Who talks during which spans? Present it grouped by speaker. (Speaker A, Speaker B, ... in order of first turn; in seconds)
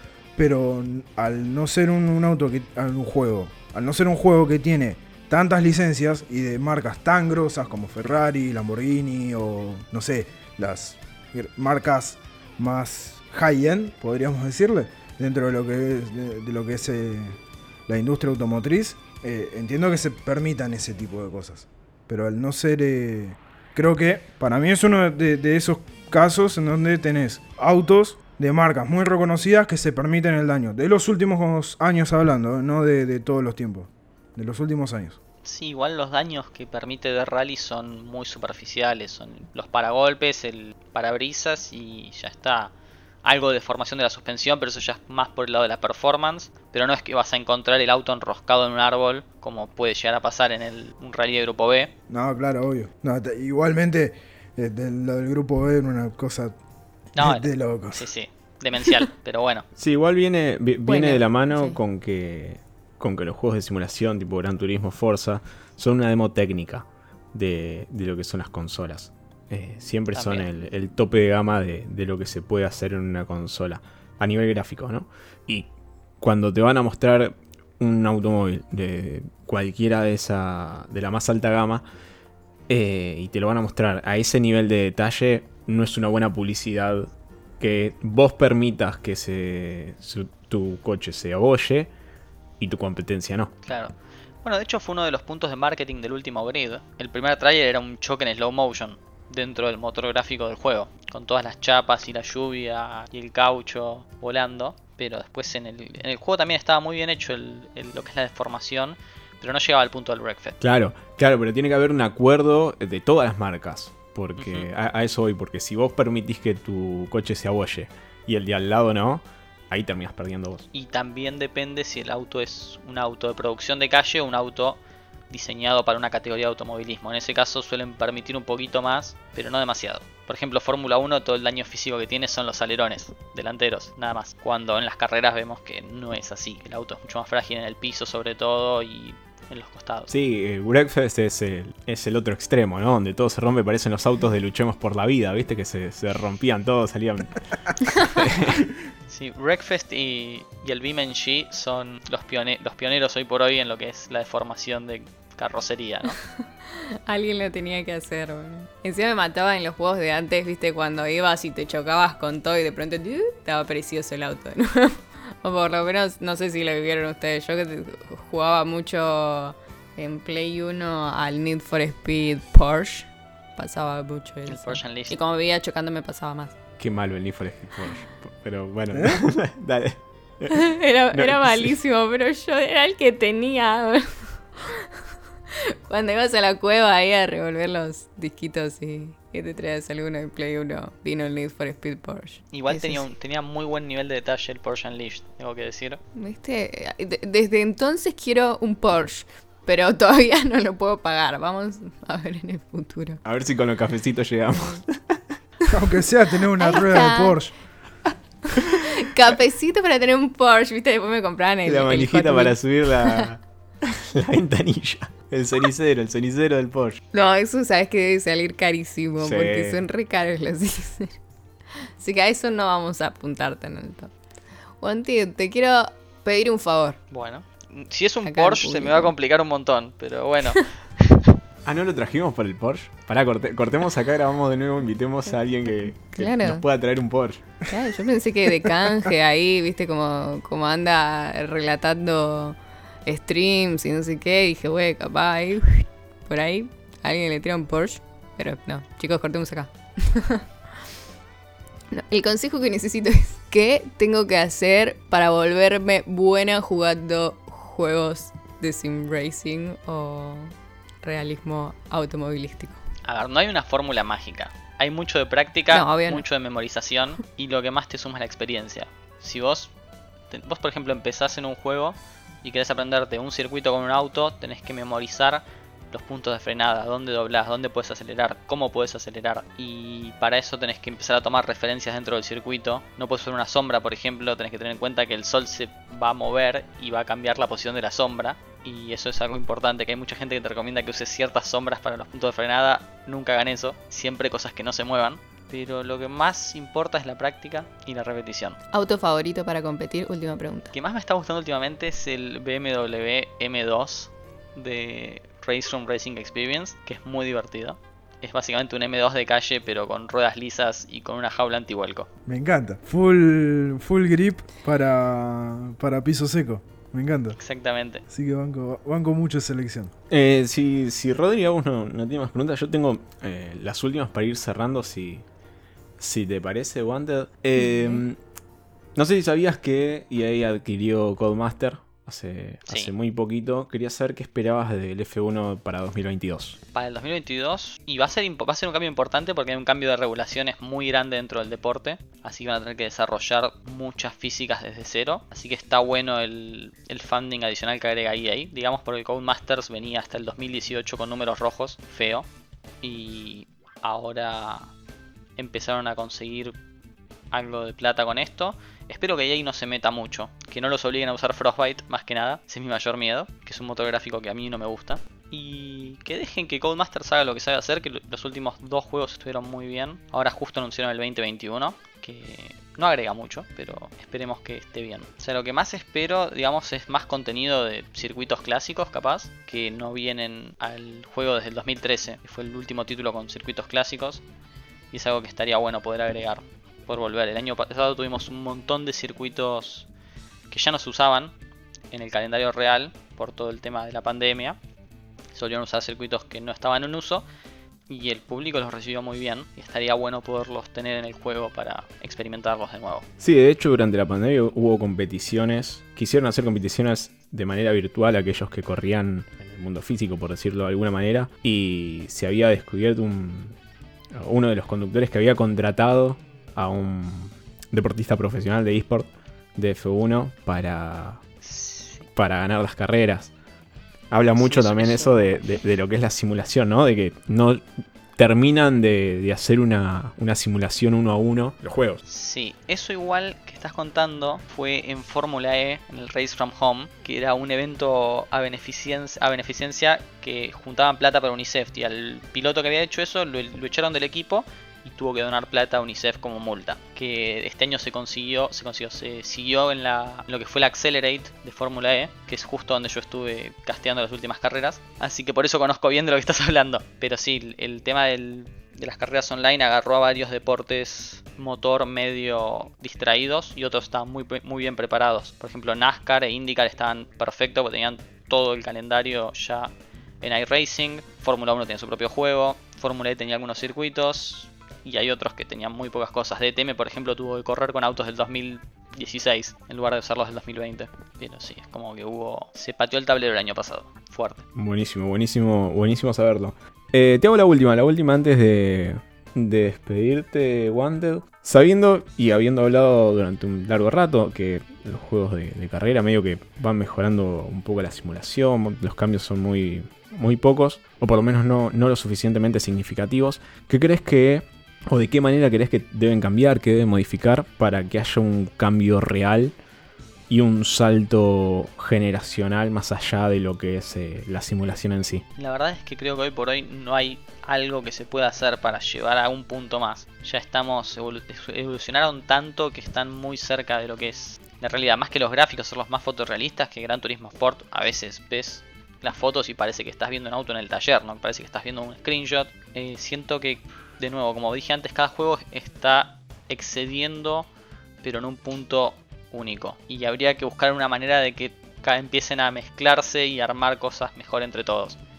Speaker A: 0.3-35.2, 52.1-56.5, 57.2-58.0, 178.9-179.2, 205.7-207.5, 312.3-317.4, 318.1-319.9
Speaker B: 35.4-42.7, 43.2-51.9, 57.2-59.6, 70.1-70.5, 93.6-110.6, 114.4-114.7, 120.7-124.8, 125.3-140.1, 149.1-156.2, 174.5-175.2, 192.5-196.0, 227.1-231.2, 263.0-269.7, 270.3-298.6, 300.7-312.1, 317.4-318.0, 332.7-332.9, 336.7-352.3, 352.8-354.7, 355.4-356.6, 357.3-384.2, 384.9-389.9, 390.5-391.3, 391.9-394.6, 395.3-397.2, 397.9-403.1, 421.4-422.1, 424.4-425.4, 432.1-484.4, 515.4-537.5, 538.0-545.0
Speaker C: 59.8-75.7, 76.2-81.8, 82.7-91.9, 92.6-93.5, 110.6-120.7, 140.1-148.7, 176.8-180.6, 181.1-181.7, 203.2-205.2, 211.6-217.0, 219.2-219.8, 231.6-237.4, 320.1-325.2, 326.0-328.2, 328.9-336.6, 403.2-413.6, 414.1-421.2, 422.1-423.3, 424.1-427.6, 428.2-432.0, 484.5-509.5, 510.3-515.2
Speaker D: 60.9-61.8, 156.6-176.5, 180.5-193.0, 196.1-203.2, 206.6-207.4, 208.4-213.3, 217.1-221.1, 222.0-224.1, 224.8-227.0, 228.2-229.1, 236.1-236.6, 237.7-250.4, 251.9-262.8, 265.7-266.2, 298.7-300.7, 327.6-328.0